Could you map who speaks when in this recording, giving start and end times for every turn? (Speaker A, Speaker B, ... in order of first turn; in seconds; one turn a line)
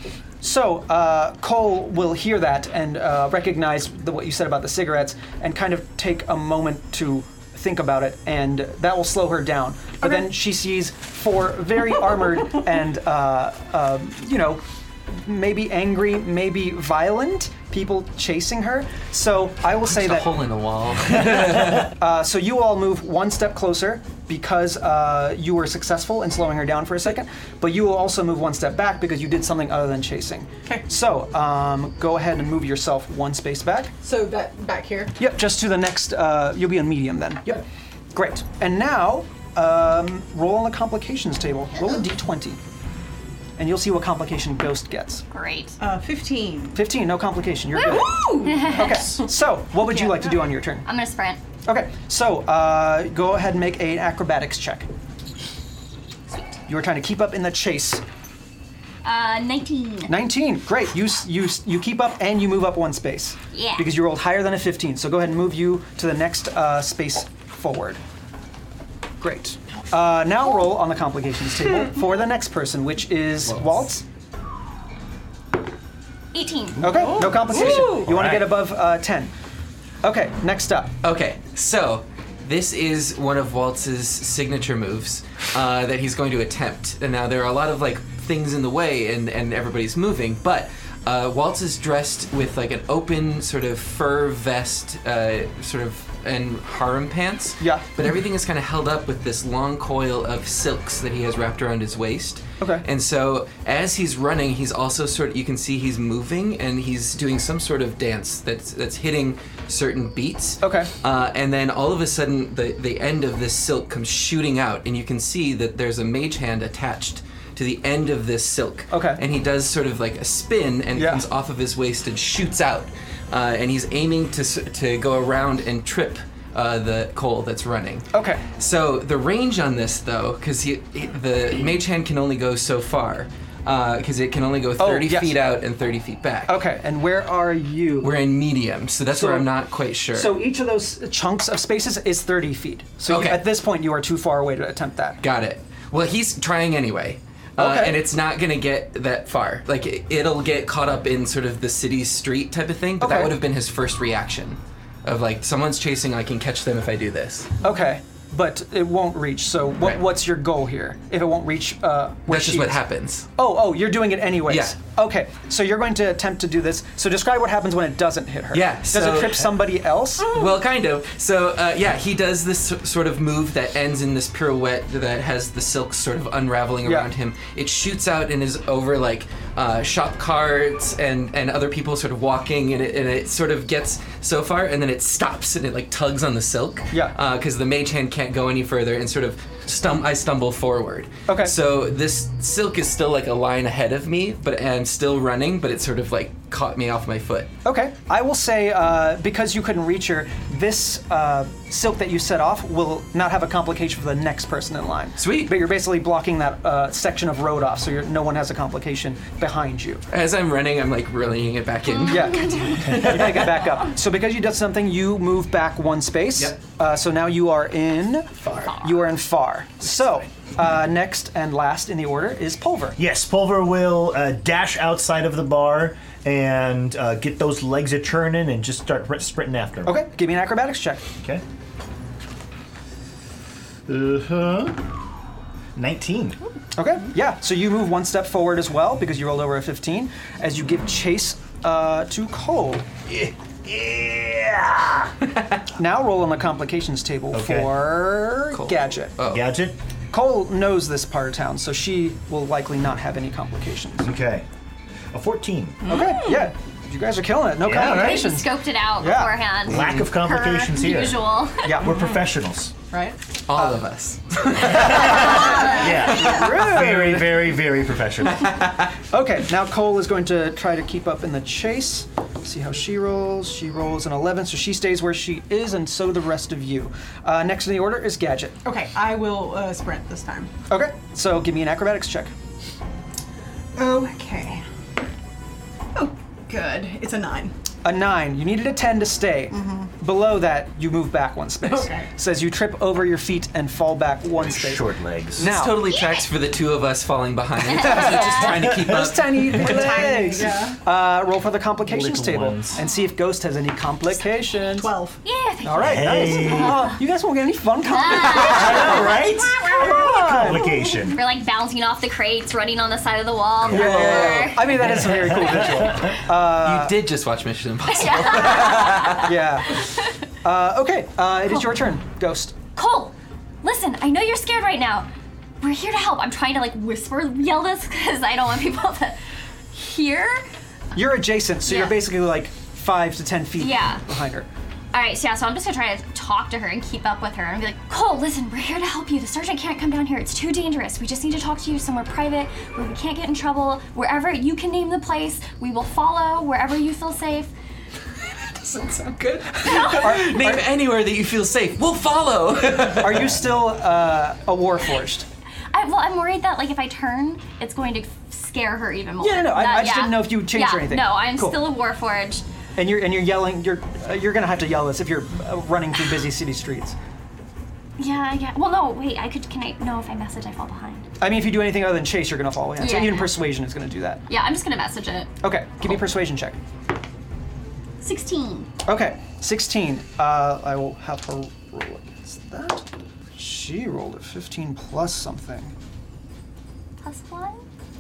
Speaker A: 0.4-20.3
Speaker B: 19.9-21.9
Speaker A: 21.8-33.9
Speaker C: 34.0-35.2
Speaker A: 35.2-42.6
Speaker A: 43.6-45.2
Speaker D: 45.3-45.8
Speaker C: 45.8-46.8
Speaker A: 46.7-50.9
Speaker C: 47.7-49.1
Speaker D: 48.4-49.2
Speaker D: 50.9-51.4
Speaker A: 51.7-54.9
Speaker A: 56.7-58.0
Speaker D: 59.0-60.1
Speaker A: 60.1-68.0
Speaker D: 63.5-64.0
Speaker A: 69.2-74.0
Speaker D: 76.3-76.9
Speaker A: 76.8-79.3
Speaker E: 76.8-78.5
Speaker C: 76.9-78.1
Speaker A: 80.0-80.9
Speaker B: 81.0-128.1
Speaker A: 97.6-97.9
Speaker A: 102.6-102.9
Speaker A: 110.6-110.9
Speaker A: 118.9-119.2
Speaker A: 120.9-121.2
Speaker A: 128.1-128.4
Speaker B: 128.6-136.6
Speaker A: 134.8-135.4
Speaker A: 136.5-138.2
Speaker B: 138.0-140.4
Speaker A: 139.1-139.5
Speaker A: 140.1-145.2
Speaker B: 143.1-143.5
Speaker B: 145.2-157.5
Speaker A: 147.6-148.0
Speaker A: 153.0-153.4
Speaker A: 157.6-162.8
Speaker B: 162.3-163.3
Speaker A: 163.4-170.4
Speaker B: 164.5-164.8
Speaker B: 168.5-169.5
Speaker B: 170.2-197.5
Speaker A: 186.9-187.2
Speaker A: 191.3-191.6
Speaker A: 197.7-210.1
Speaker B: 205.2-205.6
Speaker B: 210.1-213.6
Speaker D: 211.9-212.9
Speaker A: 212.1-223.0
Speaker B: 218.4-218.7
Speaker E: 223.0-230.0
Speaker A: 229.8-231.1
Speaker E: 231.2-231.4
Speaker E: 233.9-234.8
Speaker E: 235.8-236.4
Speaker A: 236.8-242.9
Speaker E: 243.1-245.1
Speaker A: 245.8-249.2
Speaker E: 247.3-247.7
Speaker B: 248.5-249.4
Speaker E: 249.2-249.8
Speaker A: 250.1-254.1
Speaker E: 254.0-254.5
Speaker E: 255.1-255.9
Speaker C: 255.8-256.5
Speaker A: 255.8-259.4
Speaker E: 257.6-258.2
Speaker D: 257.7-261.8
Speaker E: 259.7-262.7
Speaker B: 259.7-260.1
Speaker A: 261.6-262.0
Speaker C: 262.9-263.2
Speaker B: 263.5-266.7
Speaker E: 264.7-268.5
Speaker A: 265.0-265.3
Speaker C: 265.1-266.4
Speaker A: 265.8-267.2
Speaker B: 268.4-268.7
Speaker A: 269.1-278.6
Speaker C: 278.6-280.5
Speaker A: 280.7-282.3
Speaker C: 283.8-284.6
Speaker C: 285.9-287.5
Speaker A: 287.8-296.0
Speaker C: 289.6-289.9
Speaker C: 291.6-292.1
Speaker E: 294.4-295.5
Speaker B: 295.4-299.7
Speaker D: 295.9-296.2
Speaker A: 297.8-304.9
Speaker D: 297.9-298.2
Speaker E: 298.4-299.8
Speaker C: 299.7-300.8
Speaker E: 301.9-302.8
Speaker D: 302.8-303.1
Speaker C: 304.7-305.2
Speaker D: 305.2-306.7
Speaker A: 305.6-310.7
Speaker E: 305.8-306.8
Speaker D: 307.9-309.8
Speaker E: 308.2-311.2
Speaker D: 310.9-314.8
Speaker A: 313.7-317.0
Speaker B: 313.8-314.4
Speaker E: 314.9-316.2
Speaker B: 316.5-319.3
Speaker D: 317.9-319.9
Speaker A: 318.4-322.6
Speaker D: 322.8-325.1
Speaker D: 325.6-329.2
Speaker D: 329.7-330.4
Speaker A: 330.9-334.5
Speaker D: 331.7-332.0
Speaker D: 333.6-334.0
Speaker D: 334.9-347.5
Speaker B: 348.3-353.3
Speaker D: 349.6-350.2
Speaker A: 349.7-350.7
Speaker A: 352.9-355.3
Speaker D: 355.7-362.4
Speaker A: 359.2-361.6
Speaker A: 362.8-367.0
Speaker D: 368.0-371.1
Speaker A: 371.2-374.2
Speaker D: 372.8-373.4
Speaker D: 374.3-375.3
Speaker A: 375.4-376.6
Speaker D: 378.0-378.7
Speaker A: 378.9-385.7
Speaker D: 387.0-387.6